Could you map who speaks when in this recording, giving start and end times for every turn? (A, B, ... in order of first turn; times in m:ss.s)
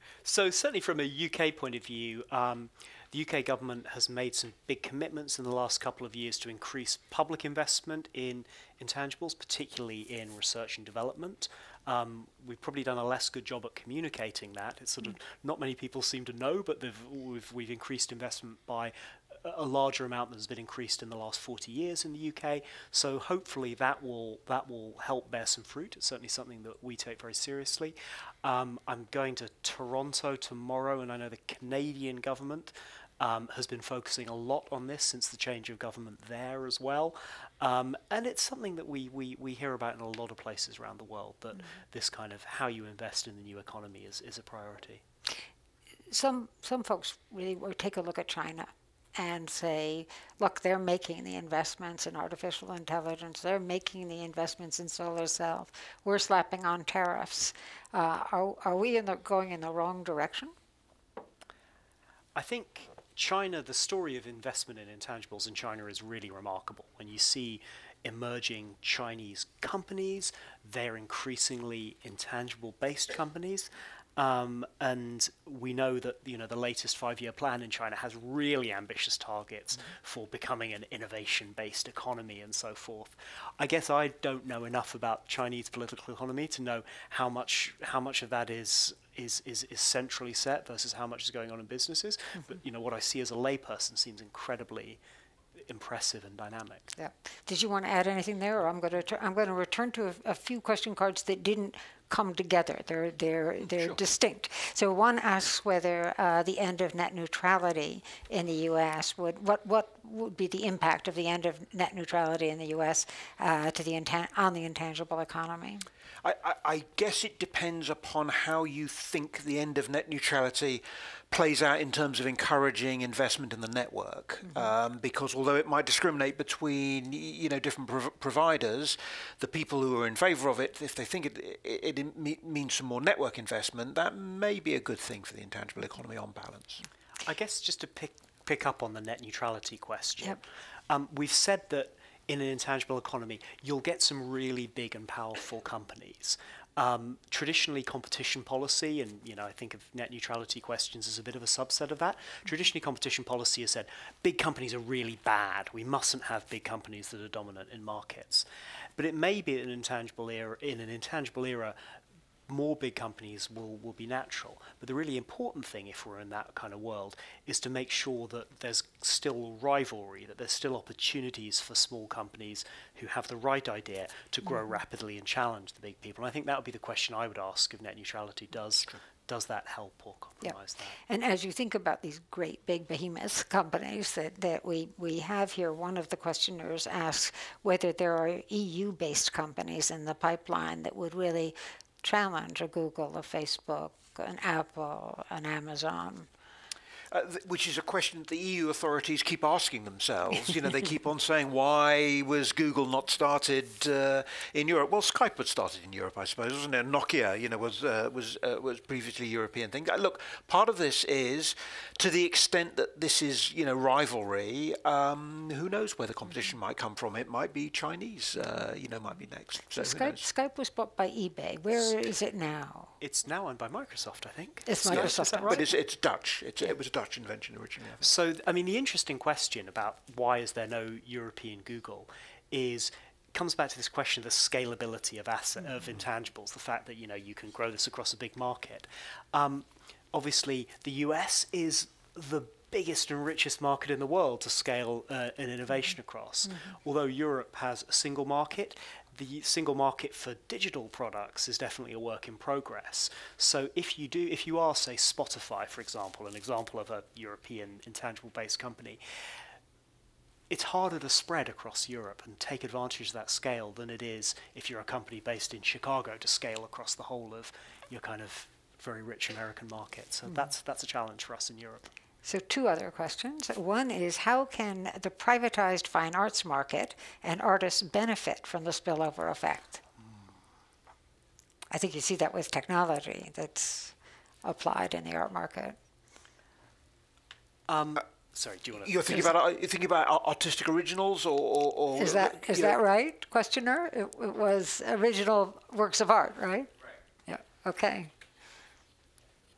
0:00.2-0:45.0 A
0:46.1-1:00.5 B
1:02.3-1:35.0 A
1:35.6-1:36.9 A
1:37.0-1:55.9 B
1:56.2-2:16.8 C
2:17.2-2:38.4 A
2:39.0-2:41.8 A
2:42.5-3:01.0 A
3:01.1-3:16.3 B
3:17.1-3:40.3 C
3:39.8-3:42.9 B
3:43.0-3:45.6 A
3:44.7-3:45.6 B
3:44.9-3:48.1 C
3:48.0-4:19.0 A
4:20.5-4:31.9 A
4:32.2-4:39.8 B
4:41.7-4:45.8 B
4:47.7-4:49.3 A
4:48.8-4:52.8 C
4:52.0-4:56.7 B
4:57.3-4:58.1 B